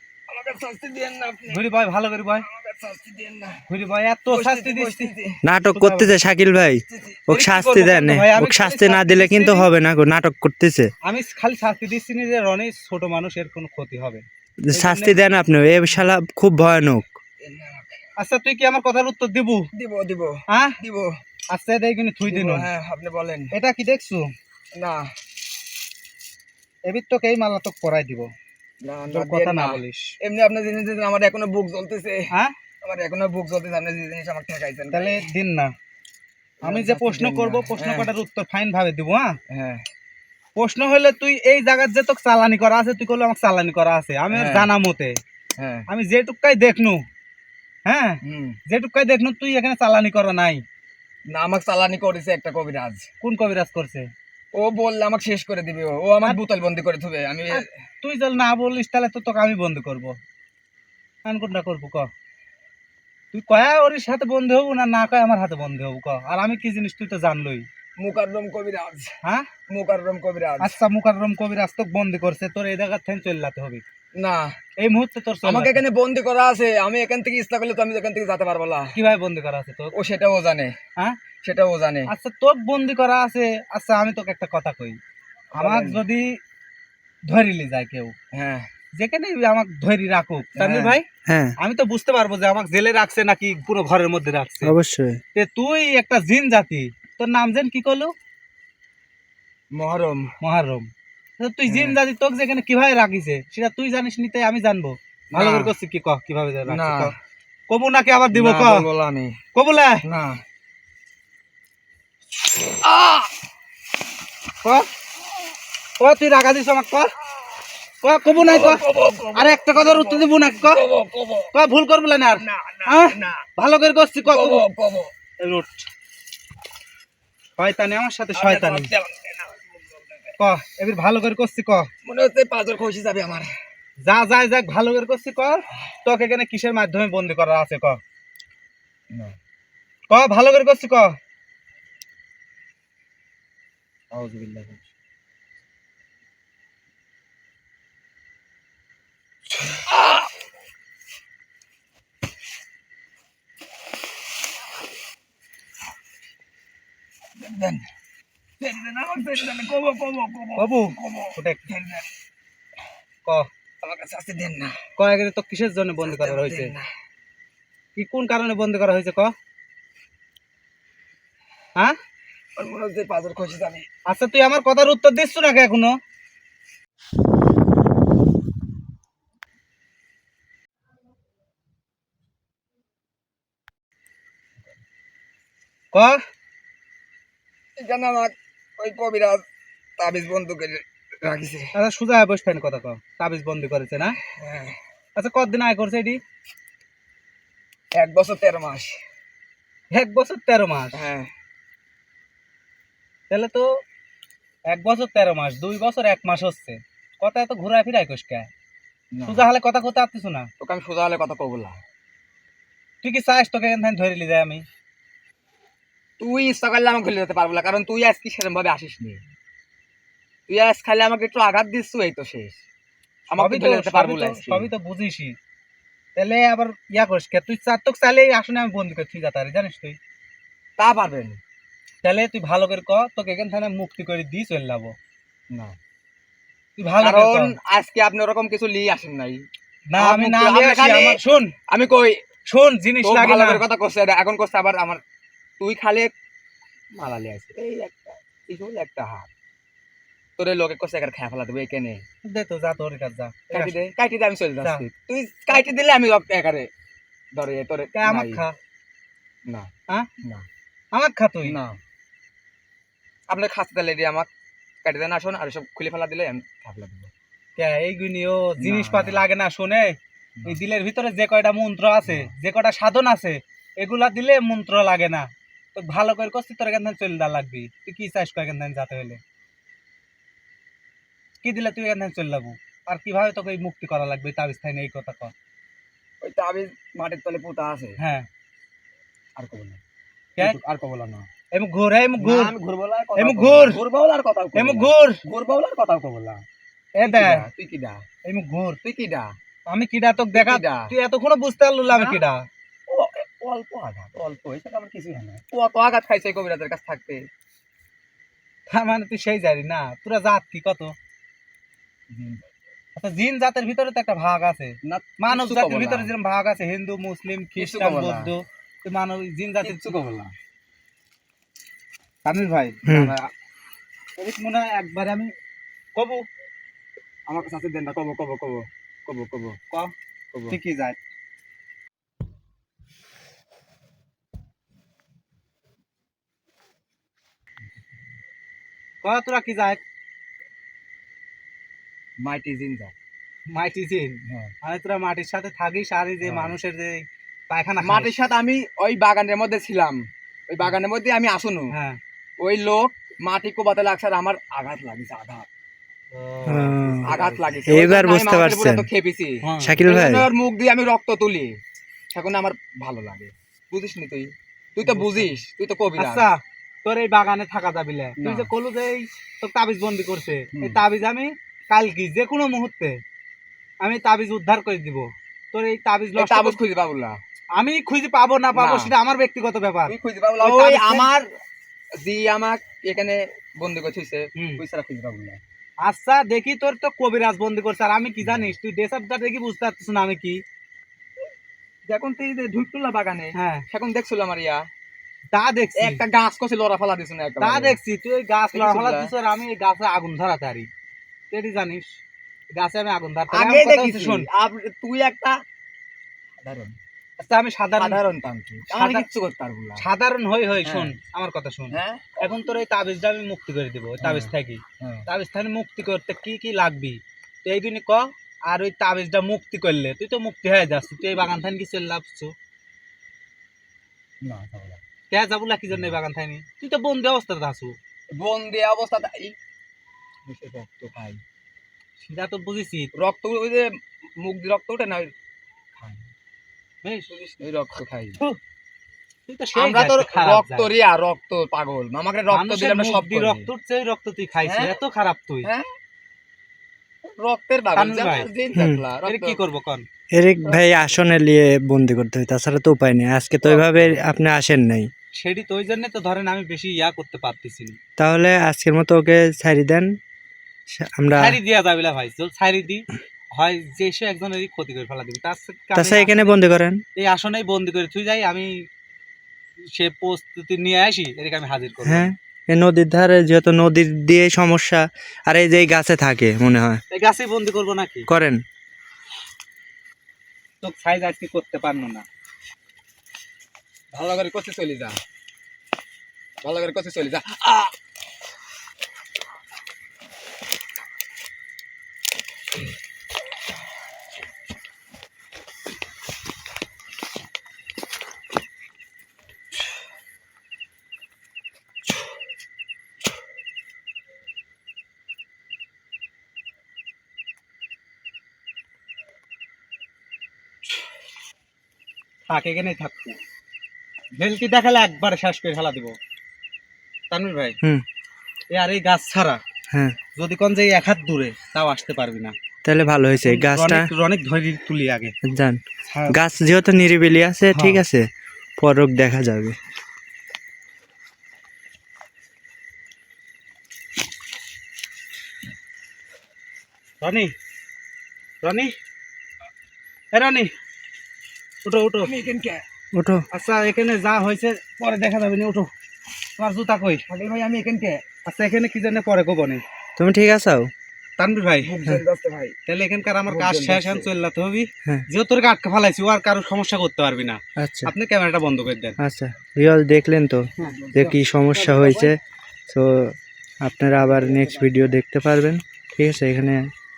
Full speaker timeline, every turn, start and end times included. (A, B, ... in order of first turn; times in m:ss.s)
0:00.3-0:01.6 A
0:01.5-0:02.5 B
0:02.4-0:03.6 A
0:03.7-0:05.1 B
0:04.3-0:05.4 A
0:05.4-0:10.9 C
0:05.7-0:06.1 B
0:06.9-0:07.2 A
0:07.3-0:09.7 B
0:11.0-0:15.2 B
0:14.6-0:17.1 C
0:17.4-0:18.0 A
0:18.2-0:19.7 B
0:19.7-0:21.1 A
0:20.5-0:20.8 B
0:21.5-0:22.6 B
0:22.2-0:23.5 A
0:23.5-0:24.3 B
0:24.8-0:25.1 A
0:26.9-0:28.3 B
0:28.8-0:32.3 A
0:29.1-0:30.1 B
0:32.8-0:35.2 A
0:34.9-0:35.7 B
0:36.6-0:38.1 A
0:36.6-0:39.4 B
0:39.5-0:39.8 A
0:40.6-0:45.2 B
0:44.3-0:44.7 A
0:45.6-0:45.8 A
0:45.9-0:47.0 B
0:47.8-0:50.6 B
0:48.2-0:48.6 A
0:51.3-0:53.1 A
0:53.2-0:54.1 B
0:54.5-0:57.6 A
0:57.5-1:00.2 B
1:01.2-1:02.1 B
1:03.3-1:07.6 B
1:08.0-1:09.1 A
1:09.2-1:09.5 B
1:09.7-1:10.7 A
1:10.6-1:13.8 B
1:14.1-1:14.5 A
1:14.8-1:15.8 B
1:15.4-1:18.9 A
1:18.9-1:19.9 B
1:19.9-1:20.8 A
1:21.4-1:22.1 A
1:22.1-1:25.0 B
1:25.5-1:26.0 A
1:25.6-1:26.4 B
1:27.3-1:28.1 B
1:28.3-1:28.7 A
1:28.9-1:31.0 B
1:30.6-1:31.0 A
1:31.2-1:31.5 C
1:31.6-1:34.7 B
1:34.6-1:35.2 C
1:35.3-1:38.1 B
1:39.7-1:40.3 A
1:40.4-1:47.1 B
1:41.7-1:42.0 A
1:45.3-1:45.7 A
1:46.7-1:47.1 A
1:47.7-1:48.8 B
1:48.3-1:49.4 A
1:49.5-1:50.0 B
1:50.0-1:50.4 A
1:52.7-1:53.3 A
1:54.6-1:54.9 B
1:56.0-1:57.1 B
1:58.0-1:58.8 B
1:58.3-2:01.5 A
1:59.3-2:00.8 B
2:01.5-2:04.6 B
2:02.4-2:03.4 A
2:04.2-2:05.1 A
2:05.4-2:05.8 B
2:07.6-2:08.9 B
2:08.3-2:10.3 A
2:10.4-2:11.9 B
2:12.0-2:13.5 A
2:14.0-2:18.0 B
2:19.1-2:19.4 A
2:20.1-2:21.2 B
2:24.1-2:24.8 A
2:37.4-2:37.8 A
2:38.6-2:42.1 A
2:40.6-2:41.6 B
2:43.8-2:44.8 A
2:45.0-2:46.7 B
2:46.0-2:46.9 A
2:48.0-2:49.3 B
2:52.6-2:53.8 A
2:54.1-2:55.9 B
3:05.9-3:06.2 B
3:07.8-3:09.4 A
3:10.0-3:11.7 A
3:11.7-3:14.2 B
3:14.2-3:14.8 A
3:15.2-3:16.2 B
3:17.9-3:19.0 A
3:19.9-3:21.0 B
3:20.9-3:21.3 A
3:23.3-3:23.8 B
3:24.7-3:28.5 B
3:29.1-3:29.5 A
3:29.2-3:30.5 B
3:30.6-3:31.8 A
3:33.0-3:34.6 B
3:36.2-3:39.2 A
3:40.5-3:42.6 A
3:43.3-3:44.7 A
3:43.3-3:45.3 B
3:46.2-3:50.0 B
3:50.8-3:51.4 A
3:52.0-3:54.9 B
3:55.5-3:55.8 A
3:56.8-3:57.5 B
3:57.0-3:59.4 A
3:59.9-4:01.5 B
4:00.0-4:02.2 A
4:02.5-4:03.6 B
4:03.0-4:05.0 A
4:05.6-4:06.1 A
4:06.9-4:09.3 A
4:10.4-4:12.0 A
4:12.2-4:13.7 B
4:13.5-4:16.7 A
4:17.3-4:18.4 A
4:17.9-4:18.5 B
4:20.9-4:21.5 B
4:21.4-4:21.8 A
4:23.3-4:24.3 A
4:24.8-4:27.1 A
4:27.6-4:39.2 B
4:28.6-4:29.2 A
4:32.0-4:32.3 A
4:41.4-4:45.3 B
4:46.2-4:48.0 A
4:48.0-4:48.3 B
4:49.4-4:49.8 A
4:50.4-4:51.3 A
4:51.5-4:52.5 B
4:52.2-4:56.4 A
4:53.2-4:53.8 B
4:54.5-4:55.2 B
4:57.0-4:57.4 B
4:57.0-4:58.0 A
4:58.2-4:58.8 B
4:58.8-4:59.3 A
4:59.7-5:02.4 B
5:00.3-5:00.9 A
5:01.9-5:02.2 A
5:02.9-5:07.3 A
5:08.7-5:10.9 B
5:12.1-5:12.4 A
5:13.0-5:19.9 B
5:14.8-5:16.1 A
5:17.6-5:18.3 A
5:19.6-5:20.3 A
5:22.2-5:22.8 B
5:22.8-5:23.3 A
5:22.9-5:23.1 C
5:24.2-5:25.3 B
5:26.0-5:26.2 B
5:27.3-5:29.6 A
5:30.5-5:31.0 B
5:39.0-5:39.8 B
5:42.2-5:42.9 A
5:43.5-5:48.1 B
5:44.3-5:44.5 A
5:46.2-5:46.6 A
5:47.8-5:51.7 A
5:51.7-5:52.0 B
5:52.4-5:55.5 A
5:56.1-5:57.6 B
5:56.5-5:57.0 C
5:57.0-6:01.6 A
5:57.7-5:58.9 C
5:59.4-5:59.8 B
5:59.6-6:00.3 C
6:02.1-6:06.2 A
6:04.8-6:05.3 B
6:06.0-6:13.0 B
6:08.2-6:08.5 A
6:10.5-6:10.8 A
6:13.8-6:16.6 B
6:16.2-6:17.2 A
6:17.6-6:21.2 B
6:18.6-6:18.9 A
6:19.9-6:21.2 A
6:22.0-6:25.4 A
6:24.4-6:24.6 B
6:25.8-6:30.4 B
6:28.2-6:28.5 A
6:31.9-6:34.6 A
6:33.3-6:33.6 B
6:35.3-6:36.0 B
6:35.8-6:37.8 A
6:37.4-6:40.7 B
6:38.5-6:39.1 A
6:41.3-6:41.9 B
6:42.5-6:44.3 B
6:43.3-6:45.4 A
6:46.4-6:46.8 A
6:47.2-6:48.0 B
6:47.8-6:49.8 A
6:48.7-6:49.0 B
6:49.8-7:02.3 B
6:50.6-6:50.9 A
6:51.7-6:52.2 A
6:54.0-6:55.0 A
7:04.2-7:04.8 A
7:05.1-7:07.7 B
7:08.1-7:09.3 A
7:10.2-7:11.2 A
7:12.0-7:12.9 B
7:12.9-7:15.1 A
7:15.8-7:16.1 A
7:17.1-7:18.2 A
7:19.3-7:20.7 B
7:19.6-7:23.5 A
7:22.3-7:25.5 B
7:24.4-7:24.7 A
7:27.0-7:29.4 A
7:27.8-7:28.3 B
7:28.5-7:28.8 C
7:29.0-7:29.8 B
7:30.1-7:34.9 C
7:33.4-7:33.9 B
7:35.2-7:37.8 B
7:38.0-7:39.9 C
7:40.7-7:41.4 C
7:41.2-7:46.3 B
7:45.7-7:46.8 C
7:47.0-7:48.5 B
7:49.7-7:52.1 B
7:51.8-7:56.8 C
7:56.9-7:58.1 B
7:58.1-7:58.4 C
8:00.6-8:02.0 B
8:03.9-8:05.0 A
8:06.4-8:07.7 A
8:32.3-8:33.2 B
8:34.2-8:35.9 B
8:37.1-8:37.6 B
8:38.5-8:39.4 B
8:39.7-8:40.0 C
8:40.2-8:42.3 B
8:42.6-8:43.9 C
8:43.2-8:45.1 B
8:45.2-8:48.1 C
8:45.8-8:46.2 B
8:47.5-8:47.8 B
8:48.6-8:49.6 C
8:57.0-8:57.3 B
8:58.4-8:58.7 B
9:00.1-9:00.5 B
9:01.6-9:02.1 B
9:02.0-9:02.6 A
9:02.9-9:03.2 C
9:03.3-9:05.7 B
9:06.4-9:07.0 B
9:07.1-9:08.0 A
9:08.2-9:09.6 B
9:10.0-9:10.7 C
9:11.2-9:11.7 B
9:11.6-9:12.6 A
9:12.7-9:19.0 B
9:13.3-9:14.1 A
9:17.6-9:17.9 C
9:19.0-9:22.2 C
9:20.6-9:22.1 A
9:22.7-9:26.7 C
9:24.0-9:24.7 A